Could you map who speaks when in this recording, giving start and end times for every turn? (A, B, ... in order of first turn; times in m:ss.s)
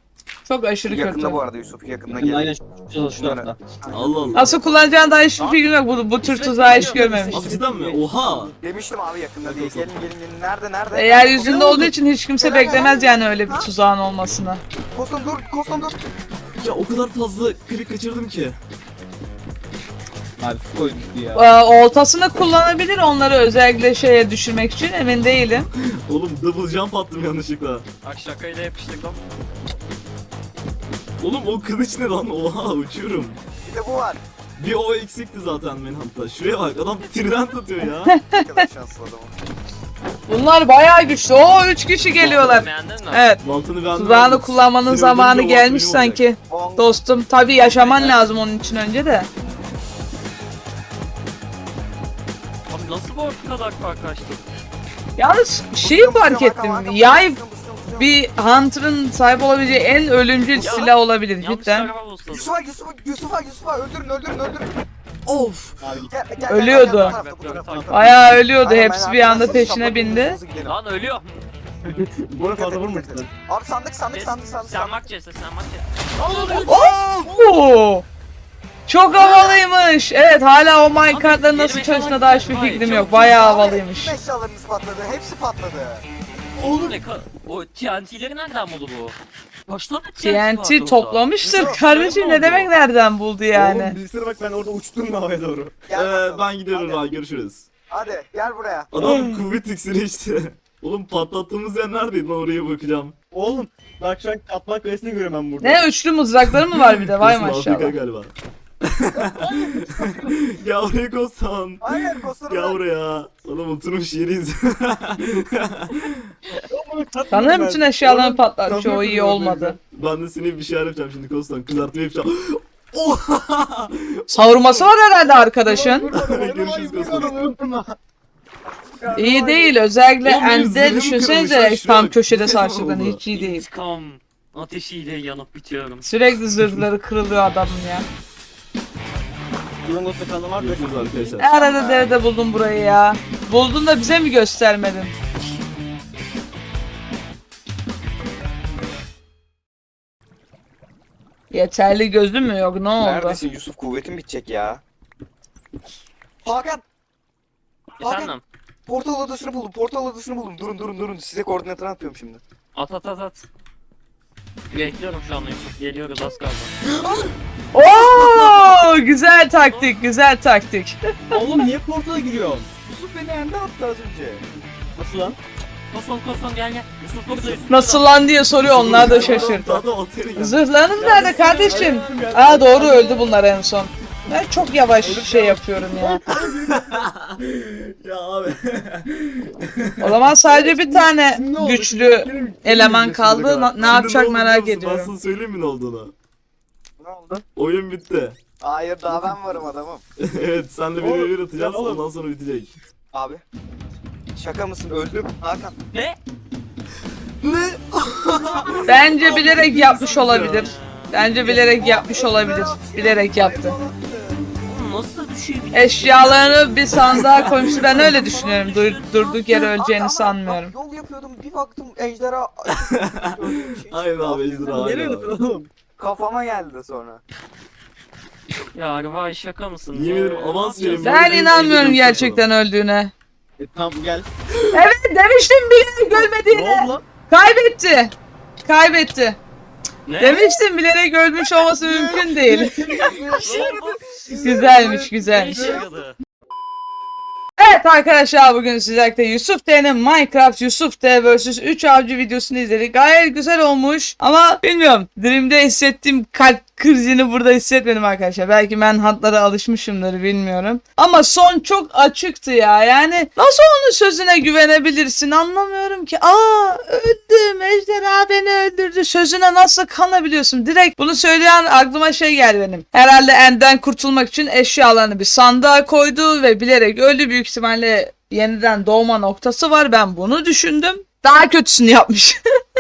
0:00.4-0:01.4 A
0:00.9-0:02.5 B
0:02.1-0:04.4 C
0:03.1-0:05.0 B
0:03.9-0:04.5 D
0:04.3-0:07.4 A
0:05.4-0:05.6 C
0:06.2-0:08.5 C
0:07.3-0:08.5 D
0:08.6-0:13.7 B
0:09.4-0:09.9 D
0:10.9-0:14.6 A
0:14.9-0:15.9 B
0:16.6-0:18.6 D
0:20.4-0:21.4 C
0:21.3-0:25.7 A
0:25.6-0:27.9 D
0:28.0-0:29.2 E
0:31.2-0:33.4 D
0:33.6-0:34.2 B
0:34.6-0:38.1 D
0:38.1-0:38.6 A
0:38.2-0:39.3 B
0:40.3-0:43.4 A
0:42.2-0:43.3 E
0:42.2-0:42.6 D
0:43.4-0:46.2 D
0:43.9-0:49.3 A
0:46.5-0:47.0 B
0:47.6-0:48.2 B
0:52.7-0:54.5 E
0:55.2-0:57.4 A
0:55.8-0:58.2 B
0:58.0-1:01.9 A
1:00.6-1:00.9 B
1:00.6-1:02.5 E
1:02.3-1:04.8 B
1:05.3-1:05.8 D
1:05.8-1:06.1 C
1:06.1-1:10.8 B
1:06.5-1:07.2 A
1:06.8-1:08.1 E
1:07.9-1:10.4 A
1:10.6-1:11.4 E
1:11.8-1:13.3 C
1:12.4-1:15.0 B
1:14.1-1:16.7 E
1:16.2-1:16.7 C
1:16.4-1:17.3 B
1:16.6-1:18.1 A
1:18.9-1:24.1 A
1:19.1-1:19.6 B
1:21.1-1:23.6 E
1:22.8-1:26.0 B
1:26.6-1:29.2 E
1:29.7-1:31.3 E
1:30.2-1:33.9 A
1:31.4-1:31.9 B
1:33.5-1:35.9 C
1:35.9-1:37.1 B
1:35.9-1:37.7 D
1:37.9-1:38.9 B
1:38.9-1:43.1 D
1:39.0-1:39.4 A
1:43.3-1:45.8 C
1:45.6-1:48.0 A
1:46.5-1:56.3 D
1:49.2-1:50.5 C
1:51.8-1:52.8 B
1:56.5-1:59.8 C
1:57.3-1:59.8 A
1:59.9-2:04.9 D
2:04.3-2:06.1 A
2:05.5-2:08.0 C
2:06.1-2:07.4 D
2:08.9-2:09.8 C
2:09.2-2:13.6 A
2:10.2-2:13.2 D
2:13.3-2:16.1 E
2:16.0-2:18.1 A
2:19.8-2:21.5 C
2:20.6-2:21.5 D
2:21.4-2:25.1 A
2:21.4-2:22.2 B
2:31.5-2:33.4 A
2:33.0-2:34.8 B
2:36.4-2:36.8 B
2:38.0-2:38.3 B
2:38.0-2:38.4 E
2:38.9-2:42.4 B
2:42.7-2:43.4 E
2:44.7-2:46.7 E
2:47.7-2:51.4 A
2:48.1-2:48.7 D
2:49.6-2:50.0 E
2:51.3-2:52.7 C
2:52.9-2:54.4 B
2:55.0-2:55.4 C
2:55.9-2:58.1 E
2:57.7-2:59.8 A
2:58.6-3:01.6 D
2:58.7-2:59.9 C
3:00.4-3:06.3 A
3:01.0-3:03.4 C
3:05.0-3:07.1 C
3:06.3-3:10.2 D
3:10.0-3:15.1 A
3:10.4-3:14.0 C
3:13.8-3:16.1 D
3:17.0-3:17.4 B
3:17.6-3:18.4 D
3:18.6-3:20.0 B
3:20.2-3:22.7 D
3:21.0-3:22.0 C
3:23.1-3:23.4 B
3:24.3-3:25.7 B
3:25.9-3:26.2 E
3:27.4-3:30.7 D
3:28.4-3:29.7 B
3:28.9-3:33.8 A
3:30.3-3:31.4 E
3:31.4-3:31.7 C
3:31.6-3:34.4 B
3:34.6-3:39.6 E
3:35.7-3:40.7 A
3:37.1-3:38.0 D
3:39.5-3:45.0 B
3:42.7-3:45.3 D
3:44.3-3:45.7 C
3:46.0-3:47.2 B
3:48.7-3:51.9 E
3:49.9-3:52.5 D
3:50.9-3:53.1 A
3:53.6-3:54.3 C
3:54.7-3:58.1 A
3:56.1-3:57.0 C
3:58.6-3:59.4 A
4:00.1-4:00.5 E
4:00.2-4:02.8 A
4:01.8-4:05.9 C
4:02.9-4:03.4 D
4:03.4-4:06.2 E
4:04.3-4:05.8 A
4:07.6-4:42.4 A